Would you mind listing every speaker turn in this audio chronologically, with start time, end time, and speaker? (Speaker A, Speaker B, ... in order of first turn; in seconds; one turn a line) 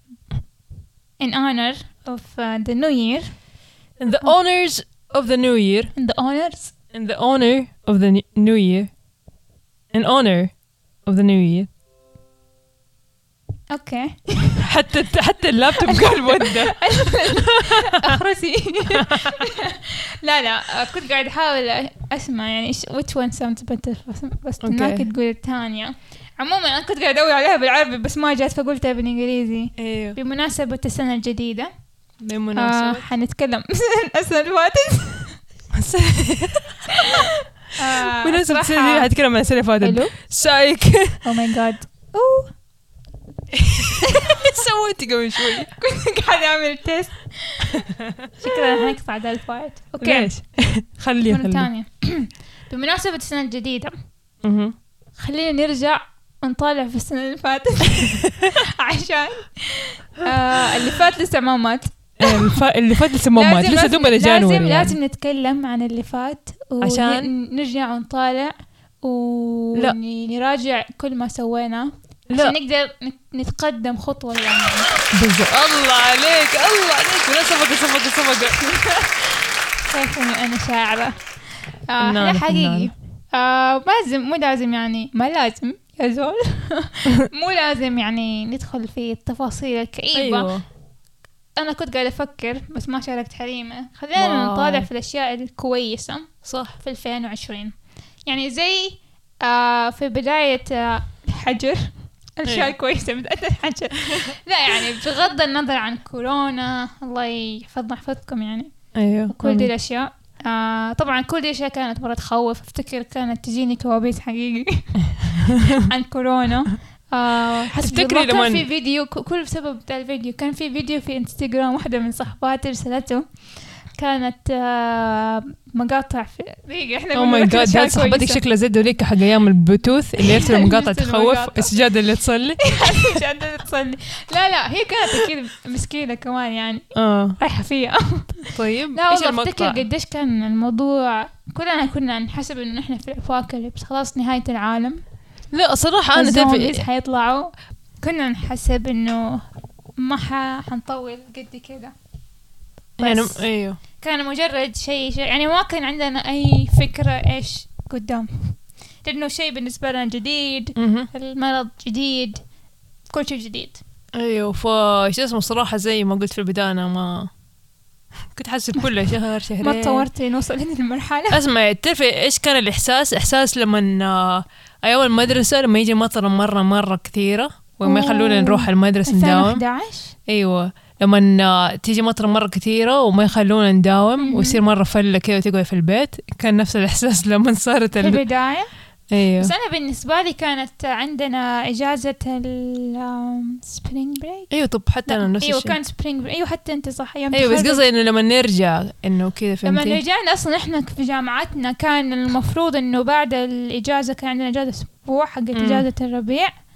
Speaker A: 1.2-3.3
Speaker B: 4.0-5.9
Speaker A: 5.9-6.7
Speaker B: 6.9-8.9
Speaker B: 9.9-10.5
Speaker B: 11.1-11.7
Speaker A: 13.7-14.7
Speaker B: 14.6-18.2
Speaker A: 15.8-31.7
Speaker B: 18.9-19.5
Speaker B: 24.6-25.1
Speaker B: 29.8-30.2
Speaker B: 32.2-33.1
Speaker A: 32.5-35.4
Speaker B: 35.7-36.8
Speaker A: 36.9-39.1
Speaker B: 38.0-41.2
Speaker A: 39.8-40.1
Speaker A: 41.2-42.5
Speaker B: 43.5-45.7
Speaker A: 44.0-44.6
Speaker A: 45.4-47.9
Speaker B: 47.7-48.3
Speaker A: 48.4-50.3
Speaker B: 50.0-51.7
Speaker A: 51.3-53.9
Speaker B: 54.4-54.8
Speaker A: 55.2-62.6
Speaker B: 58.2-58.5
Speaker B: 62.2-64.9
Speaker A: 63.3-74.9
Speaker B: 66.8-67.3
Speaker B: 72.3-72.5
Speaker B: 75.1-78.6
Speaker A: 78.6-81.2
Speaker A: 81.9-90.5
Speaker B: 82.0-82.9
Speaker B: 90.1-90.6
Speaker A: 91.6-96.3
Speaker B: 94.2-94.9
Speaker B: 96.4-96.8
Speaker A: 96.8-97.7
Speaker A: 98.2-108.7
Speaker B: 102.5-102.7
Speaker B: 108.9-109.7
Speaker A: 109.3-123.2
Speaker B: 115.4-115.8
Speaker B: 117.7-118.6
Speaker A: 123.9-128.4
Speaker B: 127.1-133.2
Speaker A: 130.2-131.8
Speaker A: 132.6-136.8
Speaker B: 136.9-137.4
Speaker A: 137.4-145.0
Speaker B: 138.5-139.8
Speaker B: 145.5-146.8
Speaker A: 146.1-149.4
Speaker A: 150.0-151.9
Speaker B: 153.0-153.8
Speaker A: 153.0-153.4
Speaker A: 154.0-162.4
Speaker B: 160.8-161.1
Speaker A: 163.1-163.8
Speaker B: 164.1-167.3
Speaker B: 168.3-170.1
Speaker A: 169.6-171.4
Speaker B: 171.3-179.6
Speaker A: 177.8-180.1
Speaker B: 180.3-188.2
Speaker A: 184.2-184.6
Speaker A: 188.0-188.7
Speaker B: 189.1-189.5
Speaker A: 189.4-194.5
Speaker B: 194.5-195.8
Speaker A: 195.1-197.8
Speaker B: 197.3-200.0
Speaker A: 199.6-206.5
Speaker B: 205.5-205.8